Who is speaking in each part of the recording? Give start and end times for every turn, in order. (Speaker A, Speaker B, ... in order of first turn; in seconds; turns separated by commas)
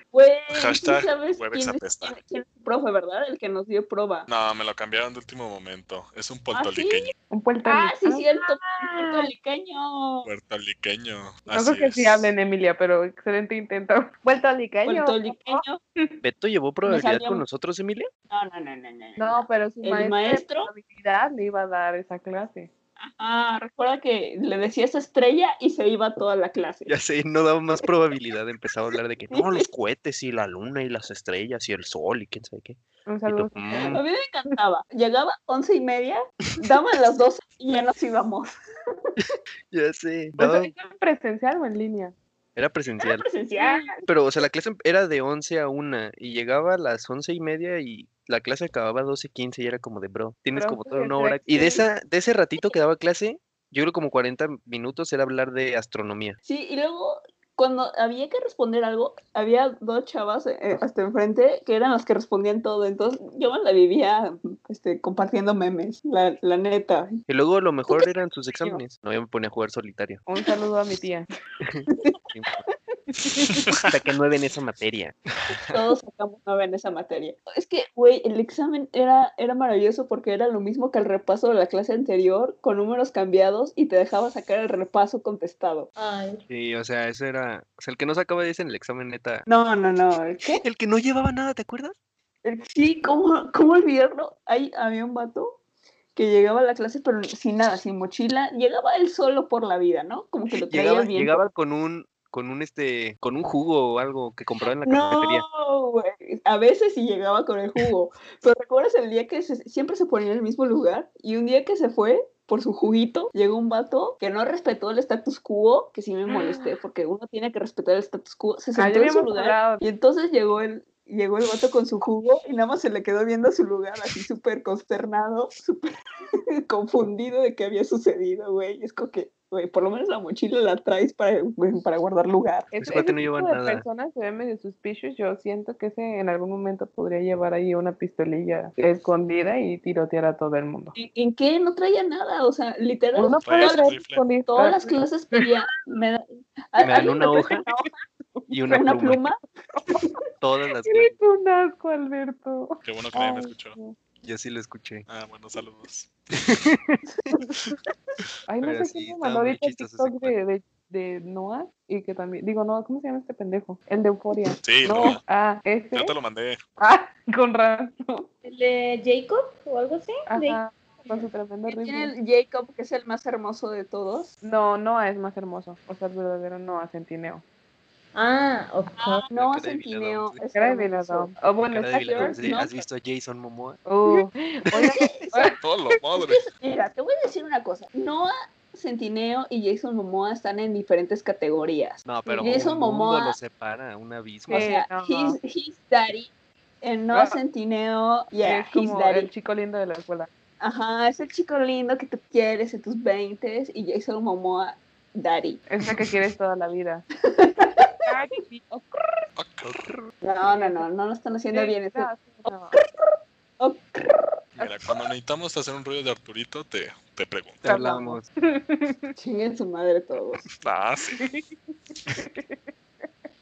Speaker A: 0.1-4.3, Speaker B: 0.5-2.1, Speaker B: 4.3-7.1, Speaker A: 6.5-7.1, Speaker C: 7.3-9.3, Speaker A: 7.7-10.3, Speaker B: 10.2-12.3, Speaker C: 11.5-16.2, Speaker A: 14.8-15.8, Speaker D: 16.2-18.1, Speaker A: 16.9-17.4, Speaker A: 18.3-20.7, Speaker C: 19.2-22.7, Speaker A: 23.0-26.9, Speaker D: 26.9-34.0, Speaker A: 29.3-29.6, Speaker C: 33.1-34.0, Speaker A: 33.9-38.5, Speaker D: 39.2-40.7, Speaker C: 40.4-42.1, Speaker D: 42.5-43.3, Speaker A: 43.0-43.9, Speaker C: 43.5-44.0, Speaker D: 44.0-56.4, Speaker C: 50.5-51.8, Speaker A: 56.4-67.2, Speaker D: 67.3-70.2, Speaker C: 70.3-71.3, Speaker D: 71.6-72.6, Speaker D: 73.8-75.8, Speaker A: 75.6-85.9, Speaker E: 86.0-86.4, Speaker D: 86.5-89.5, Speaker A: 89.5-90.6, Speaker D: 90.5-91.9, Speaker A: 92.4-95.6, Speaker A: 96.2-101.4, Speaker D: 100.7-105.4, Speaker A: 104.7-126.0, Speaker C: 116.3-116.7, Speaker C: 118.8-119.8, Speaker A: 126.7-132.7, Speaker C: 132.7-140.9, Speaker D: 132.8-133.8, Speaker A: 140.9-143.8, Speaker C: 143.1-145.5, Speaker B: 143.4-144.2, Speaker A: 144.5-147.9, Speaker D: 146.8-147.6, Speaker C: 148.4-148.8, Speaker D: 148.5-149.2, Speaker A: 148.7-149.4, Speaker C: 149.7-150.2, Speaker D: 150.4-151.2, Speaker C: 150.8-153.9, Speaker B: 152.8-153.8, Speaker D: 154.2-155.1, Speaker B: 155.1-156.1, Speaker D: 156.4-157.3, Speaker C: 158.5-166.1, Speaker D: 158.6-160.3, Speaker B: 164.6-165.2, Speaker B: 165.9-166.6, Speaker C: 166.8-168.3, Speaker E: 168.4-170.6, Speaker C: 170.3-172.1, Speaker A: 171.7-174.3, Speaker C: 174.4-177.4, Speaker E: 178.1-179.3, Speaker A: 179.0-181.3, Speaker D: 179.3-180.4, Speaker C: 180.5-182.5, Speaker D: 181.7-183.9, Speaker A: 182.1-182.8, Speaker C: 183.9-185.6, Speaker D: 184.7-185.1, Speaker A: 184.8-185.6, Speaker B: 185.6-186.4, Speaker A: 186.2-193.4, Speaker D: 192.0-194.7, Speaker C: 192.2-192.7, Speaker C: 194.5-195.4, Speaker A: 194.5-196.3, Speaker A: 196.8-199.3, Speaker C: 197.1-197.4, Speaker C: 198.4-200.3, Speaker A: 200.6-205.7, Speaker C: 205.7-207.0, Speaker A: 207.2-207.9, Speaker C: 208.1-208.9, Speaker B: 209.4-209.9, Speaker D: 209.8-210.1, Speaker A: 210.2-212.1, Speaker C: 210.4-210.9, Speaker C: 211.5-212.8, Speaker A: 212.8-213.1, Speaker A: 213.6-214.3, Speaker B: 214.6-217.6, Speaker D: 217.6-218.2, Speaker C: 217.6-219.0, Speaker A: 219.2-220.5, Speaker B: 220.6-221.2, Speaker C: 222.2-222.6